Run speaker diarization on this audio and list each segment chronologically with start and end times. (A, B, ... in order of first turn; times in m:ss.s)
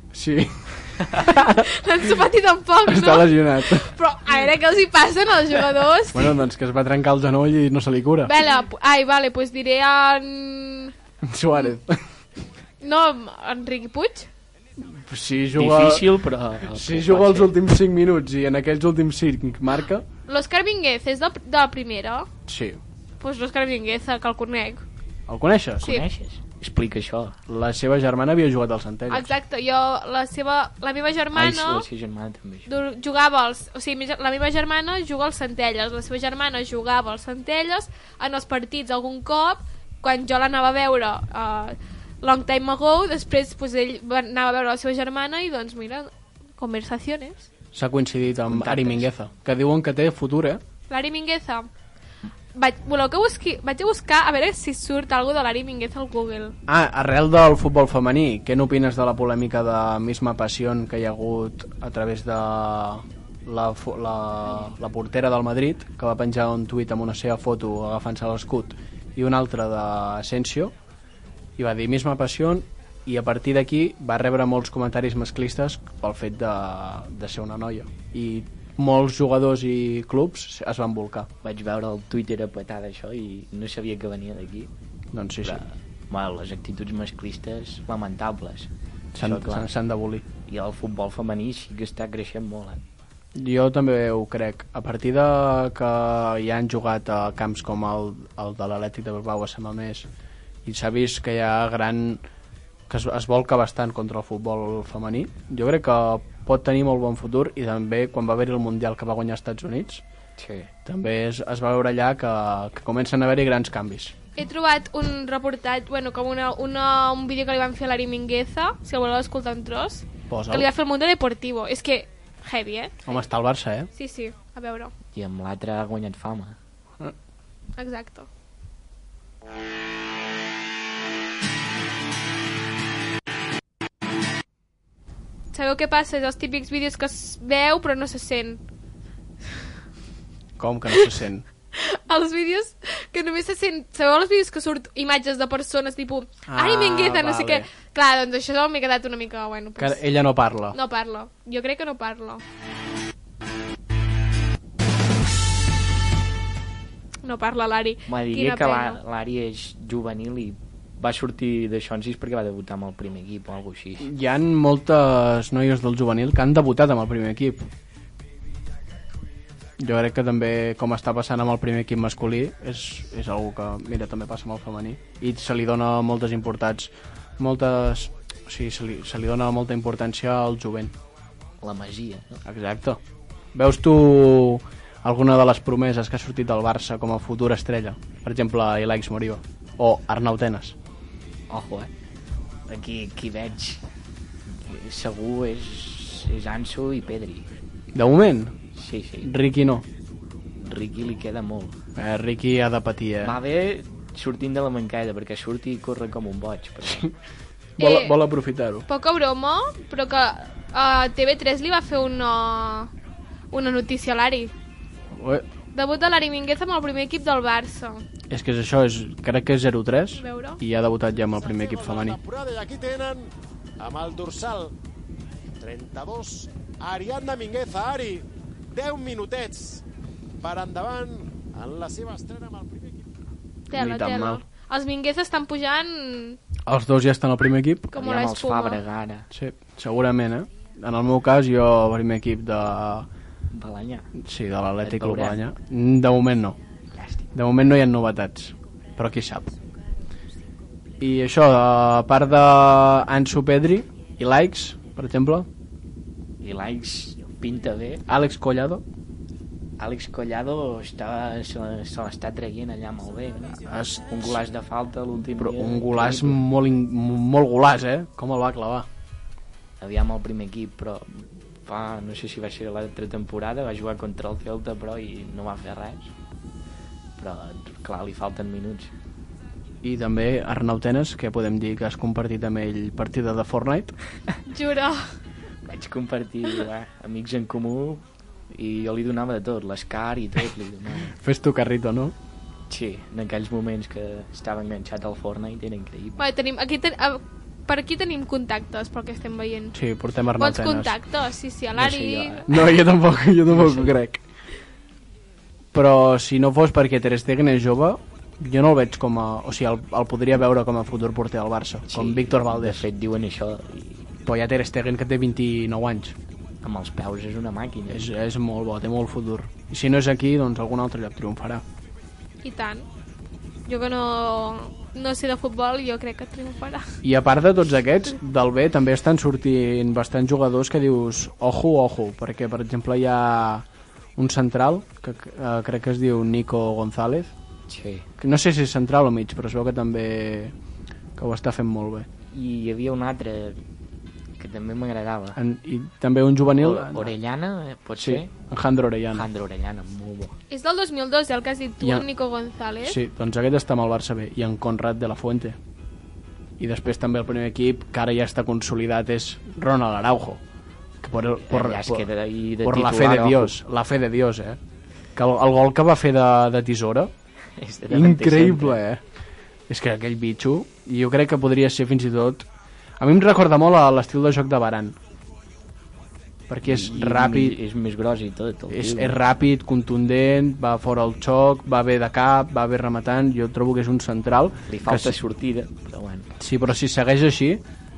0:00.1-0:01.7 A
0:01.5-0:06.3 B
0:02.8-0:03.9 A
0:06.1-0:08.3 A
0:08.2-0:10.9 B
0:11.2-0:12.0 A
0:12.8-0:14.3 B
0:14.8-0:16.1 A
0:15.5-0:17.5 C
0:16.7-0:20.0 A
0:20.3-0:22.3 B
0:22.5-0:22.8 A
0:23.2-0:24.8 B
0:25.3-0:26.0 A
0:25.8-0:27.4 C
0:27.5-0:29.3 A
0:29.1-0:31.8 B
0:31.3-0:32.7 C
0:32.7-0:47.5 B
0:47.7-0:50.6 A
0:48.5-0:49.1 C
0:50.9-0:51.7 B
0:52.6-0:56.6 B
0:56.7-1:10.7 A
1:11.6-1:21.3 A
1:21.4-1:24.7 C
1:25.1-1:25.6 A
1:25.4-1:29.7 C
1:29.1-1:30.2 A
1:30.5-1:32.8 C
1:33.4-1:40.1 A
1:40.6-1:42.2 A
1:42.9-1:50.0 A
1:50.4-1:50.7 C
1:50.8-1:54.1 A
1:54.4-2:03.1 B
2:00.3-2:00.7 A
2:03.0-2:03.9 A
2:03.9-2:04.9 B
2:05.1-2:06.6 C
2:07.8-2:08.3 B
2:15.5-2:18.6 B
2:20.6-2:21.4 A
2:21.7-2:30.0 B
2:26.5-2:27.7 A
2:29.8-2:30.8 A
2:30.7-2:32.4 B
2:37.2-2:39.0 B
2:38.1-2:44.1 C
2:44.0-2:47.7 A
2:49.8-3:00.9 A
3:01.6-3:02.4 C
3:02.4-3:03.0 A
3:03.5-3:10.8 A
3:11.5-3:11.9 C
3:12.7-3:13.8 C
3:14.5-3:17.5 C
3:17.9-3:18.5 A
3:18.7-3:19.3 C
3:19.2-3:19.8 A
3:20.6-3:21.8 C
3:22.0-3:23.4 A
3:23.2-3:27.0 C
3:27.8-3:28.9 A
3:27.8-3:28.2 B
3:28.9-3:32.9 B
3:33.5-3:34.5 B
3:35.1-3:35.4 A
3:35.7-3:38.0 B
3:38.3-3:42.2 A
3:40.2-3:40.6 B
3:41.3-3:44.7 D
3:45.6-3:49.8 D
3:50.4-3:53.0 D
3:53.7-3:56.4 B
3:53.7-3:54.4 A
3:56.6-3:57.9 A
3:57.9-3:58.8 B
3:58.0-3:59.3 C
3:59.3-4:03.1 A
4:03.5-4:04.1 C
4:04.1-4:06.6 A
4:04.8-4:05.4 C
4:06.9-4:07.2 C
4:07.3-4:09.5 A
4:11.0-4:15.5 A
4:16.4-4:18.0 C
4:18.1-4:18.8 A
4:19.8-4:26.4 C
4:23.6-4:24.4 A
4:25.4-4:28.9 A
4:29.8-4:36.1 C
4:37.2-4:38.9 C
4:39.8-4:44.0 A
4:44.4-4:45.1 B
4:45.7-4:51.1 C
4:51.1-4:52.2 A
4:52.7-4:56.2 C
4:56.2-4:59.8 B
4:59.7-5:00.9 A
5:00.4-5:02.5 B
5:01.8-5:02.5 C
5:02.5-5:04.2 A
5:03.5-5:03.9 C
5:05.7-5:12.8 A
5:11.9-5:14.1 C
5:14.2-5:16.2 A
5:16.6-5:18.0 C
5:17.9-5:21.6 A
5:22.4-5:22.8 B
5:23.7-5:27.0 B
5:27.0-5:37.3 A
5:37.7-5:38.1 C
5:38.2-5:40.5 A
5:41.2-5:42.1 A
5:42.3-5:43.6 C
5:44.4-5:45.4 C
5:45.4-5:47.1 A
5:46.5-5:48.3 C
5:48.0-5:49.2 A
5:49.1-5:50.4 C
5:50.5-5:53.0 B
5:51.8-5:52.1 A
5:52.8-5:55.6 A
5:56.6-6:00.4 A
6:01.0-6:02.1 A
6:01.4-6:03.6 C
6:02.6-6:04.6 A
6:05.2-6:07.1 A
6:07.6-6:08.8 C
6:07.9-6:09.0 A
6:09.7-6:12.5 A
6:13.0-6:15.0 A
6:16.5-6:17.6 A
6:16.6-6:19.2 C
6:18.7-6:25.2 A
6:24.7-6:26.3 C
6:26.4-6:27.6 A